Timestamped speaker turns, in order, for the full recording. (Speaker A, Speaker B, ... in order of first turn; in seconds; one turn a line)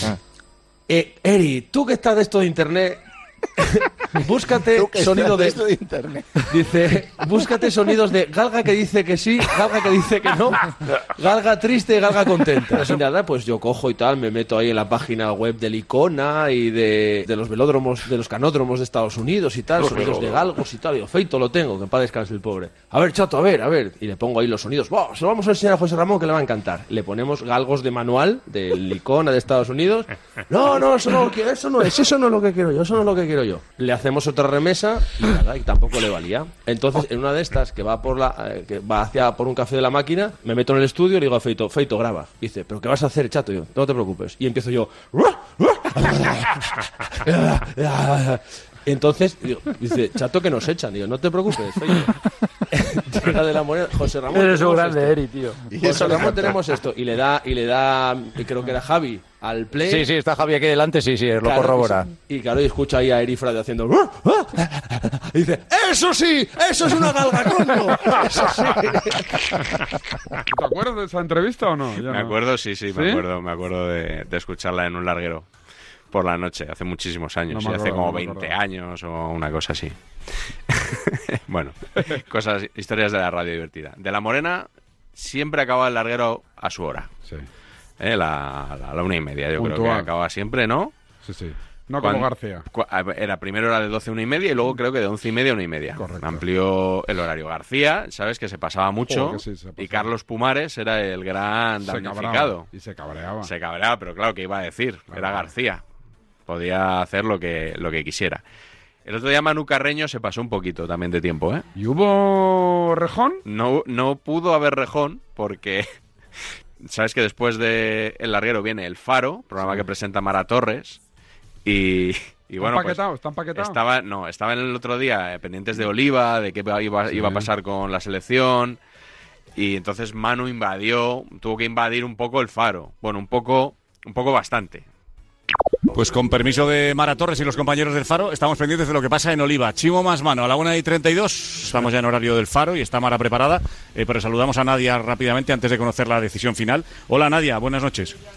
Speaker A: 0.9-3.0
Speaker A: 3.6-5.6
Speaker A: 6.5-10.6
Speaker A: 11.2-52.1
Speaker A: 52.7-55.2
Speaker B: 54.6-55.1
Speaker A: 55.8-60.1
Speaker B: 59.9-62.0
Speaker A: 61.4-69.2
Speaker C: 70.5-72.3
Speaker D: 72.1-75.5
Speaker C: 72.9-73.2
Speaker D: 76.1-80.0
Speaker C: 77.5-78.5
Speaker D: 80.7-87.1
Speaker D: 88.0-90.9
Speaker C: 89.6-90.1
Speaker C: 91.2-92.6
Speaker D: 92.0-102.7
Speaker C: 96.0-96.4
Speaker C: 99.1-100.1
Speaker C: 101.8-103.5
Speaker D: 103.4-105.8
Speaker C: 105.1-105.5
Speaker D: 106.5-108.4
Speaker D: 109.0-111.7
Speaker C: 111.8-113.4
Speaker D: 113.5-115.9
Speaker D: 116.8-121.0
Speaker D: 121.7-123.0
Speaker C: 122.6-123.8
Speaker D: 123.5-128.8
Speaker C: 127.1-127.5
Speaker D: 129.6-134.9
Speaker E: 135.9-148.2